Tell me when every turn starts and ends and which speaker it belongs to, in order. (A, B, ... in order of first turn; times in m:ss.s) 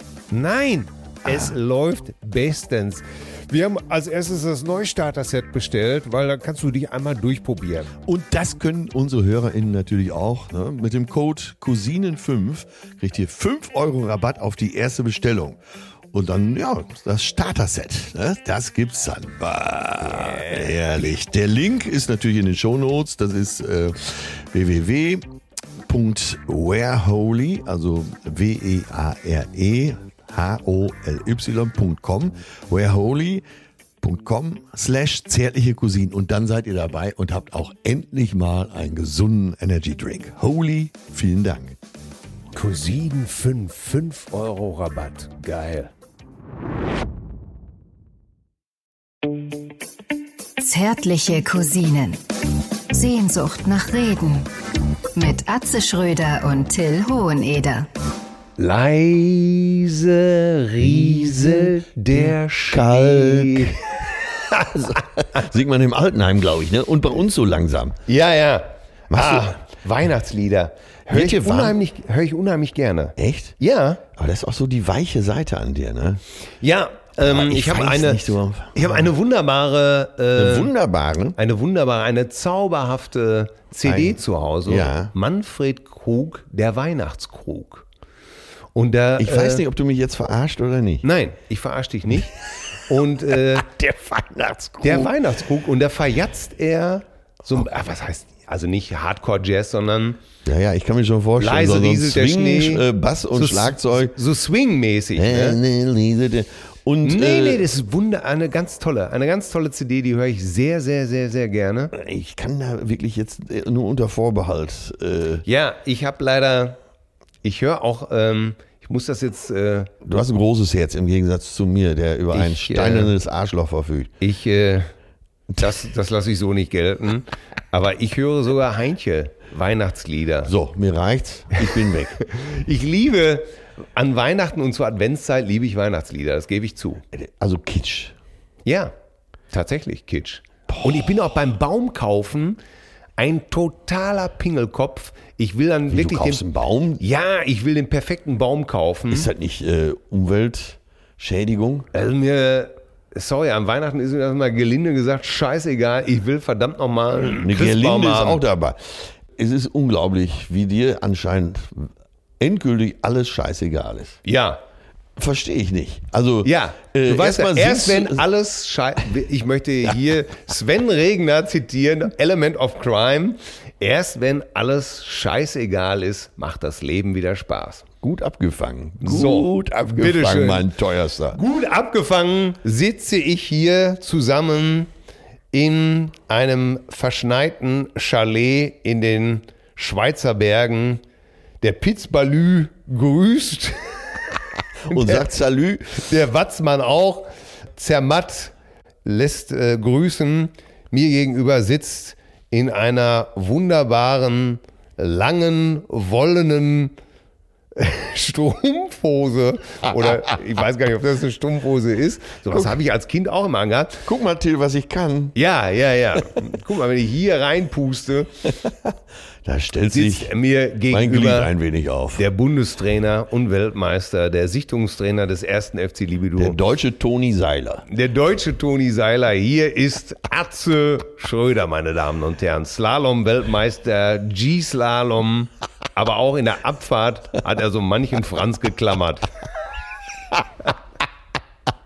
0:00.3-0:07.9 A
0:01.3-0:01.6 B
0:08.0-0:15.6 B
0:16.1-0:25.3 B
0:20.0-0:21.0 A
0:25.8-0:33.4 B
0:34.0-0:41.8 B
0:42.5-0:45.9 A
0:50.6-0:52.2 C
0:52.9-0:54.5 C
0:55.2-0:57.9 C
0:58.6-1:03.8 A
1:00.9-1:01.5 B
1:02.7-1:03.9 B
1:04.4-1:05.0 A
1:04.7-1:08.0 B
1:08.1-1:14.0 A
1:09.1-1:09.6 B
1:11.1-1:11.8 B
1:13.2-1:13.6 B
1:14.2-1:16.2 B
1:16.6-1:20.7 A
1:17.2-1:19.1 B
1:20.4-1:21.4 B
1:21.4-1:27.9 A
1:23.8-1:25.1 B
1:28.8-1:29.6 A
1:29.2-1:31.0 B
1:31.0-1:33.7 A
1:33.3-1:35.1 B
1:34.8-1:40.2 A
1:40.4-1:44.2 B
1:41.4-1:45.6 A
1:45.2-1:47.7 B
1:47.0-1:51.9 A
1:51.9-1:55.4 B
1:55.5-1:56.8 A
1:57.4-1:59.9 A
2:00.0-2:04.1 B
2:02.3-2:03.1 A
2:04.2-2:04.9 A
2:05.6-2:10.5 A
2:10.5-2:12.2 B
2:12.2-2:17.0 A
2:17.1-2:18.2 B
2:18.6-2:18.9 A
2:19.5-2:22.6 A
2:20.7-2:21.1 B
2:23.2-2:26.4 A
2:25.9-2:27.0 B
2:27.0-2:29.3 A
2:29.1-2:31.9 B
2:31.9-2:38.4 A
2:37.4-2:44.2 B
2:44.2-2:44.6 A
2:45.2-2:48.2 B
2:46.4-2:57.8 A
2:58.0-3:01.4 B
2:59.0-3:00.7 A
3:01.3-3:04.9 A
3:05.5-3:11.0 A
3:11.6-3:14.4 A
3:14.9-3:16.0 B
3:14.9-3:15.3 A
3:16.0-3:26.9 A
3:27.8-3:34.0 A
3:34.0-3:35.4 B
3:35.4-3:38.3 A
3:38.5-3:40.3 B
3:39.9-3:41.5 A
3:40.9-3:42.2 B
3:42.2-3:46.6 A
3:46.4-3:47.8 B
3:47.9-3:59.3 A